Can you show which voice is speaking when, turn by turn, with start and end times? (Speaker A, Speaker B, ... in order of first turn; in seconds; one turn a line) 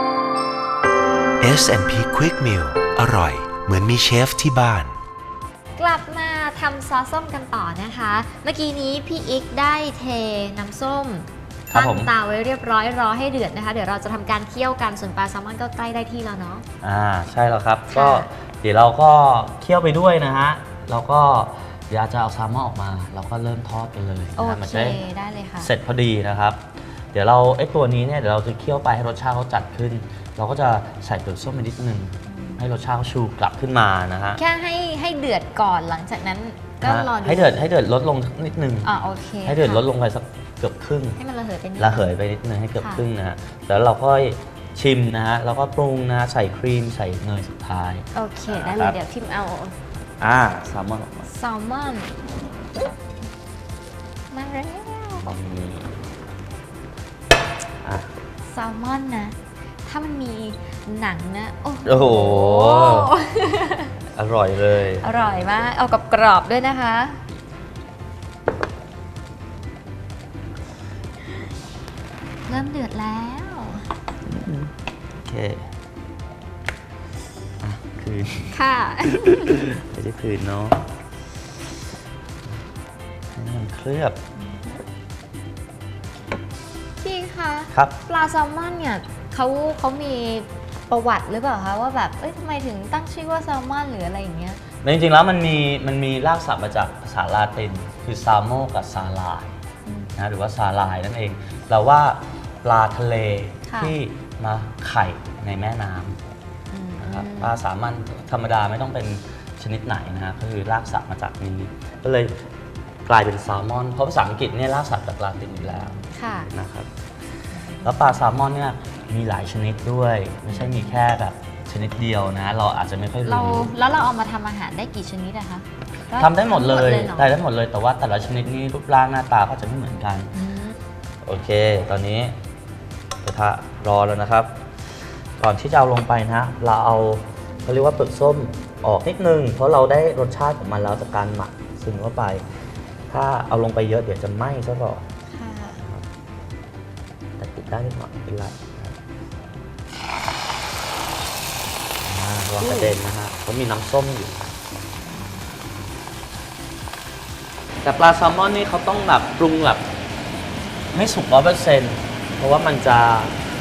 Speaker A: 1.4-5.0
Speaker B: 5.8-16.6
Speaker C: 11.7-12.1
Speaker C: 16.8-25.0
Speaker B: 17.9-18.3
Speaker B: 24.4-25.7
Speaker C: 25.6-26.6
Speaker C: 27.1-34.4
Speaker B: 32.3-32.6
Speaker B: 34.4-37.6
Speaker C: 36.8-38.9
Speaker B: 38.8-39.8
Speaker C: 39.5-41.2
Speaker B: 41.2-42.1
Speaker C: 41.8-49.0
Speaker B: 42.8-43.0
Speaker B: 48.1-49.8
Speaker C: 50.2-51.3
Speaker B: 51.3-52.1
Speaker B: 54.3-55.4
Speaker C: 55.2-56.0
Speaker C: 57.8-58.1
Speaker B: 58.5-63.9
Speaker C: 61.9-63.1
Speaker C: 64.2-65.1
Speaker B: 65.0-67.2
Speaker B: 72.5-73.8
Speaker C: 74.2-74.7
Speaker C: 75.2-75.7
Speaker C: 77.6-78.6
Speaker B: 78.5-79.6
Speaker C: 79.3-80.8
Speaker C: 83.3-84.2
Speaker B: 84.4-84.8
Speaker B: 87.0-94.6
Speaker C: 94.8-99.5
Speaker B: 99.8-100.1
Speaker C: 100.2-106.2
Speaker B: 103.7-104.0
Speaker B: 106.7-107.6
Speaker C: 107.0-112.3
Speaker C: 113.1-116.9
Speaker B: 116.0-116.5
Speaker B: 117.7-118.2
Speaker C: 117.8-123.8
Speaker B: 120.5-121.0
Speaker B: 123.2-127.3
Speaker C: 126.2-130.4
Speaker B: 130.4-130.7
Speaker C: 131.2-132.4
Speaker C: 133.2-134.5
Speaker C: 135.4-142.4
Speaker C: 143.1-145.1
Speaker B: 145.3-145.8
Speaker C: 145.8-146.1
Speaker C: 147.4-149.0
Speaker C: 152.0-154.5
Speaker B: 152.6-153.0
Speaker C: 157.8-159.8
Speaker C: 160.9-163.4